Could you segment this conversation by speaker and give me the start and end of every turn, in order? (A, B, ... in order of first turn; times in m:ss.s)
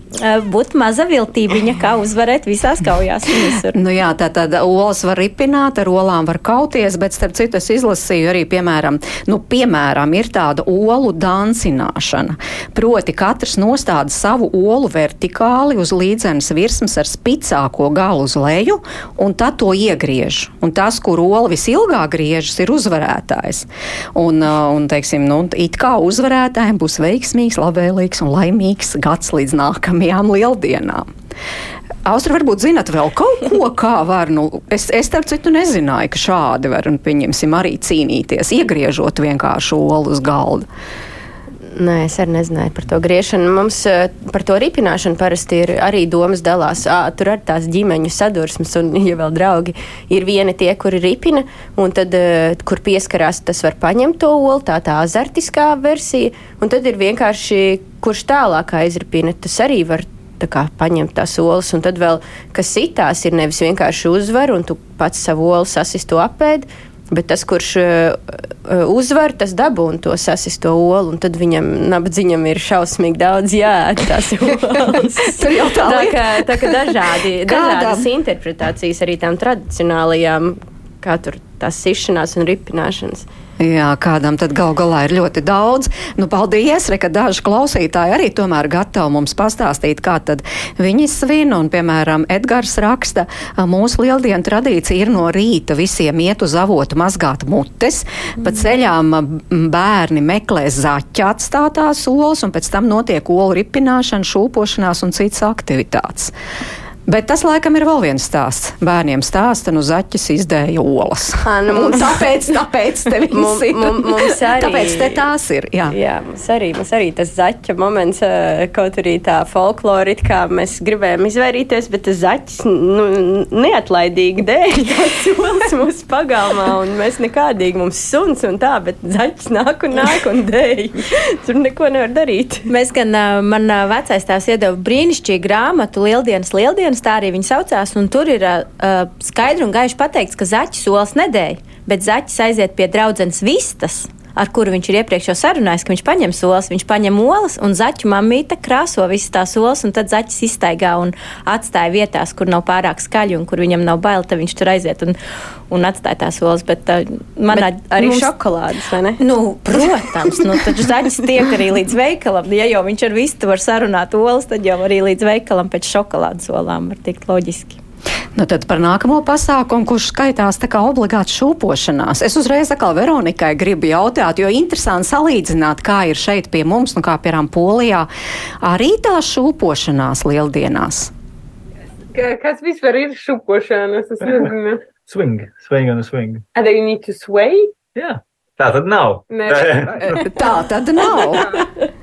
0:00.1-0:03.8 A
0:03.7-0:31.1 B
0:32.0-0:40.7 B
0:41.8-1:23.3 C
1:15.3-1:18.1 B
1:23.6-1:46.3 B
1:47.1-1:56.0 B
1:51.4-1:52.2 C
1:53.3-1:55.2 C
1:55.9-2:12.7 C
2:12.7-2:35.2 A
2:35.7-2:38.3 A
2:37.5-2:39.2 C
2:39.2-2:47.8 A
2:48.4-2:58.1 B
2:58.6-3:01.1 B
3:02.1-3:04.8 D
3:05.0-3:06.4 E
3:06.6-3:07.7 D
3:08.0-3:10.2 E
3:09.3-3:10.4 D
3:10.1-3:11.5 B
3:11.0-3:11.6 D